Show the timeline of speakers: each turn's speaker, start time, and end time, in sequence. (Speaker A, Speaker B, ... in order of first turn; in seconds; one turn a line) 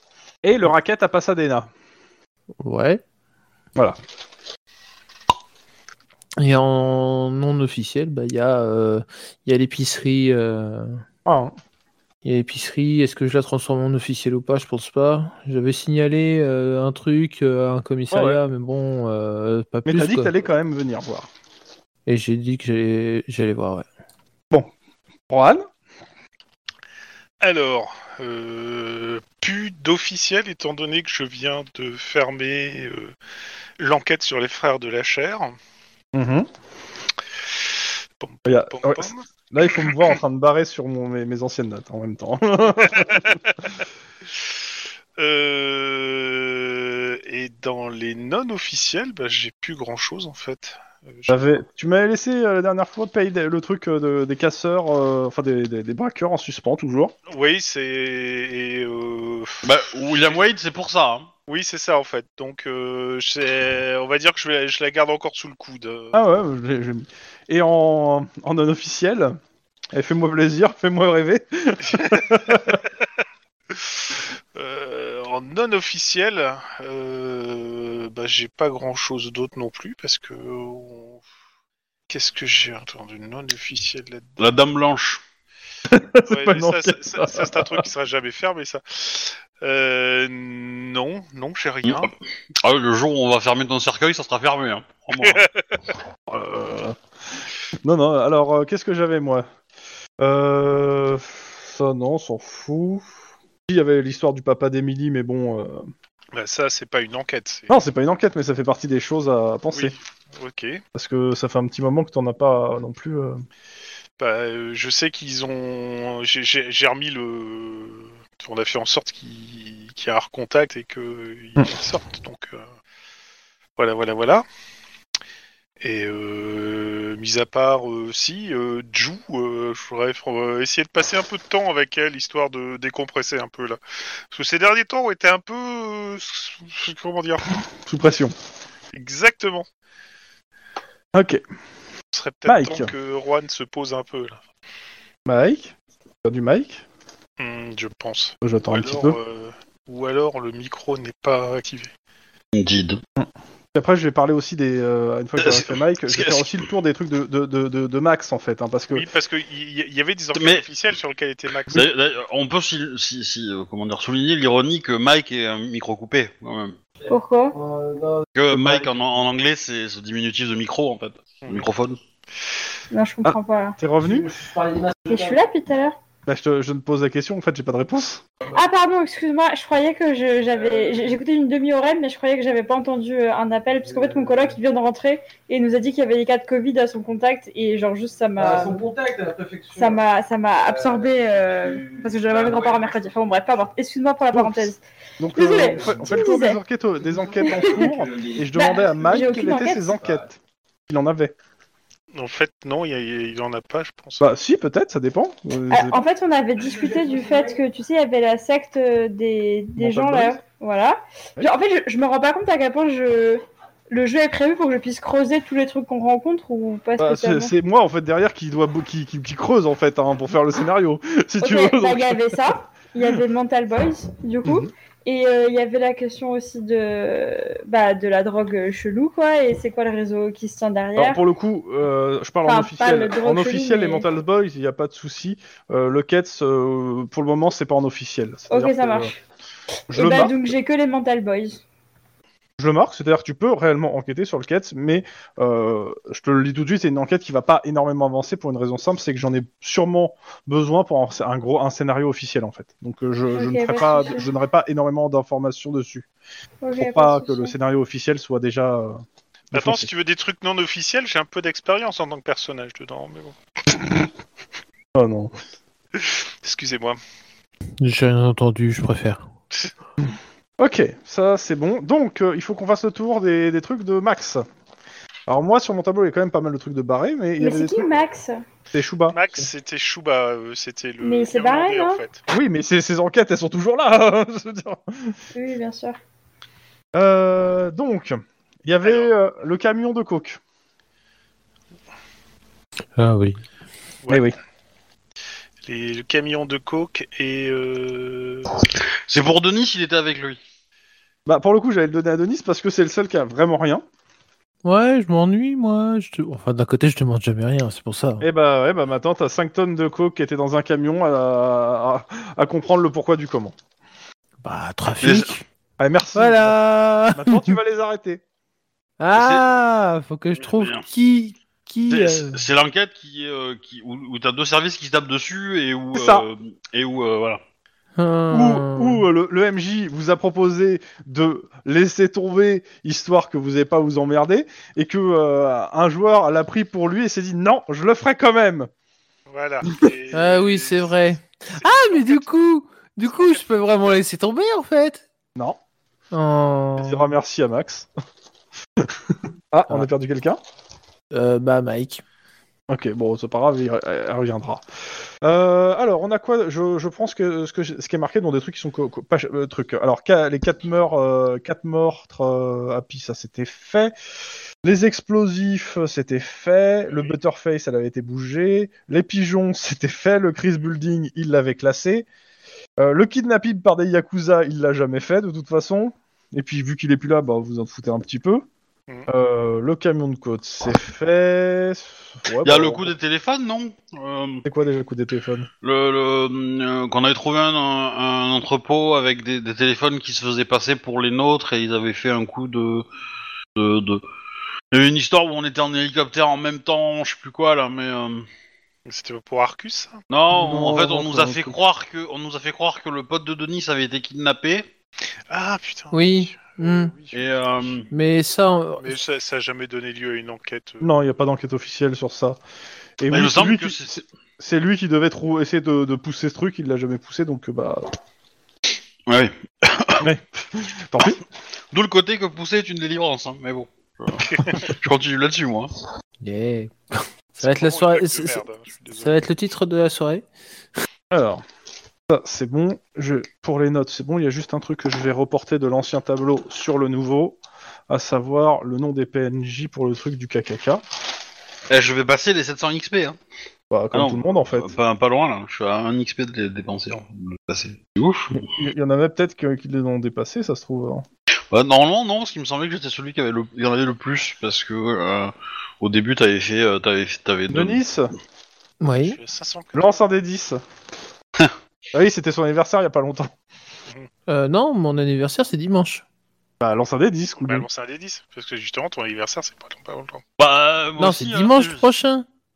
Speaker A: 0.4-1.7
Speaker B: 2.6-3.0
Speaker B: 6.4-11.0
Speaker A: 11.2-11.5
Speaker B: 12.2-20.3
Speaker A: 18.1-18.4
Speaker A: 19.9-21.3
Speaker B: 22.1-23.9
Speaker A: 25.3-25.6
Speaker C: 27.4-33.1
Speaker C: 33.8-35.5
Speaker A: 36.1-36.5
Speaker C: 38.2-40.1
Speaker A: 38.4-43.4
Speaker C: 42.8-43.5
Speaker C: 45.2-51.4
Speaker A: 51.3-57.1
Speaker C: 57.3-60.5
Speaker D: 59.6-61.3
Speaker C: 61.5-66.2
Speaker A: 66.1-69.4
Speaker A: 69.9-72.8
Speaker C: 71.8-72.7
Speaker C: 73.7-81.2
Speaker C: 82.1-84.4
Speaker D: 84.4-85.2
Speaker A: 85.9-87.8
Speaker C: 86.3-92.1
Speaker D: 92.6-95.4
Speaker C: 95.1-95.8
Speaker A: 96.3-97.0
Speaker A: 97.8-99.5
Speaker A: 100.2-103.1
Speaker A: 103.7-105.9
Speaker C: 106.3-107.7
Speaker A: 107.7-109.9
Speaker C: 109.7-110.8
Speaker A: 110.9-113.4
Speaker C: 114.2-122.7
Speaker C: 123.8-124.4
Speaker C: 125.8-133.8
Speaker C: 134.3-137.5
Speaker A: 137.8-138.3
Speaker C: 138.9-139.7
Speaker A: 141.1-141.4
Speaker C: 142.1-144.4
Speaker A: 142.4-142.9
Speaker A: 145.2-146.8
Speaker C: 147.4-151.9
Speaker A: 148.4-149.2
Speaker D: 152.5-153.0
Speaker A: 153.2-159.0
Speaker D: 155.4-156.6
Speaker C: 158.9-161.9
Speaker D: 160.3-160.6
Speaker D: 161.7-166.8
Speaker E: 167.1-167.6
Speaker F: 167.5-168.8
Speaker D: 168.3-172.0
Speaker A: 168.5-168.9
Speaker E: 172.9-173.8
Speaker A: 173.2-174.3
Speaker F: 174.0-175.4
Speaker E: 175.1-176.0
Speaker A: 176.3-178.2
Speaker E: 178.5-188.8
Speaker F: 180.5-181.2
Speaker F: 183.8-184.6
Speaker F: 188.4-190.0
Speaker E: 189.8-194.8
Speaker F: 190.6-193.0
Speaker A: 194.3-200.4
Speaker E: 195.3-196.6
Speaker F: 195.6-196.4
Speaker F: 197.2-198.4
Speaker E: 197.4-197.9
Speaker E: 198.5-200.0
Speaker F: 200.0-200.2
Speaker A: 200.9-201.3
Speaker C: 202.1-204.3
Speaker A: 204.2-206.0
Speaker E: 205.7-217.5
Speaker F: 206.6-207.6
Speaker A: 209.8-210.4
Speaker A: 217.0-222.4
Speaker E: 221.4-231.2
Speaker A: 230.9-239.1
Speaker E: 232.4-234.1
Speaker E: 238.5-239.2
Speaker A: 239.9-240.3
Speaker E: 239.9-241.6
Speaker A: 242.6-256.1
Speaker E: 253.3-254.2
Speaker E: 256.6-257.5
Speaker A: 256.8-259.0
Speaker C: 259.5-263.4
Speaker A: 259.5-259.9
Speaker A: 264.9-265.3
Speaker C: 266.4-267.0
Speaker B: 267.8-269.2
Speaker A: 270.0-274.4
Speaker A: 275.3-277.9
Speaker E: 277.4-278.4
Speaker A: 278.7-279.5
Speaker C: 279.1-282.2
Speaker E: 281.0-282.0
Speaker A: 282.3-285.1
Speaker E: 285.3-286.0
Speaker A: 286.9-290.4
Speaker C: 288.8-289.1
Speaker B: 292.9-293.4
Speaker C: 294.0-294.3
Speaker A: 294.1-294.4
Speaker C: 295.6-298.5
Speaker D: 299.1-300.4
Speaker A: 301.2-303.8
Speaker B: 304.6-308.2
Speaker A: 308.2-313.5
Speaker B: 314.4-315.4
Speaker D: 315.0-315.3
Speaker A: 315.8-316.6
Speaker B: 316.1-317.5
Speaker A: 317.1-318.2
Speaker B: 319.0-322.4
Speaker D: 319.1-319.5
Speaker D: 320.3-320.9
Speaker D: 321.9-327.4
Speaker A: 325.9-326.3
Speaker B: 328.0-329.0
Speaker A: 328.3-338.7
Speaker C: 339.3-340.9
Speaker B: 340.1-345.0
Speaker C: 341.6-342.3
Speaker C: 343.1-343.9
Speaker B: 346.1-347.1
Speaker A: 346.8-347.9
Speaker A: 348.8-350.4
Speaker B: 351.1-352.0
Speaker A: 352.7-354.6
Speaker A: 355.2-363.9
Speaker A: 364.6-372.1
Speaker C: 366.9-367.1
Speaker A: 372.8-378.4
Speaker A: 379.1-382.9
Speaker D: 382.4-384.4
Speaker A: 384.4-385.5
Speaker D: 385.6-392.8
Speaker D: 393.6-394.0
Speaker D: 394.7-398.3
Speaker C: 398.9-400.0
Speaker D: 400.1-404.7
Speaker A: 400.3-401.5
Speaker C: 405.3-407.3
Speaker B: 405.9-406.9
Speaker D: 407.1-407.9
Speaker B: 407.9-409.0
Speaker C: 408.8-410.9
Speaker A: 410.8-412.4
Speaker A: 413.0-417.9
Speaker D: 413.1-413.9
Speaker D: 419.1-420.1
Speaker A: 420.0-421.2
Speaker D: 421.7-425.7
Speaker C: 424.3-424.5
Speaker B: 426.2-428.4
Speaker C: 427.4-429.3
Speaker B: 428.9-430.2
Speaker A: 431.1-431.4
Speaker A: 432.1-440.8
Speaker D: 441.7-443.2
Speaker A: 443.7-444.7
Speaker D: 443.9-448.5
Speaker A: 448.4-451.0
Speaker D: 451.5-457.8
Speaker A: 457.5-458.1
Speaker B: 458.8-459.2
Speaker C: 459.0-459.9
Speaker A: 459.7-460.6
Speaker A: 461.9-463.3
Speaker B: 464.3-466.0
Speaker A: 466.6-467.6
Speaker C: 467.4-470.2
Speaker D: 470.4-471.8
Speaker B: 471.0-472.2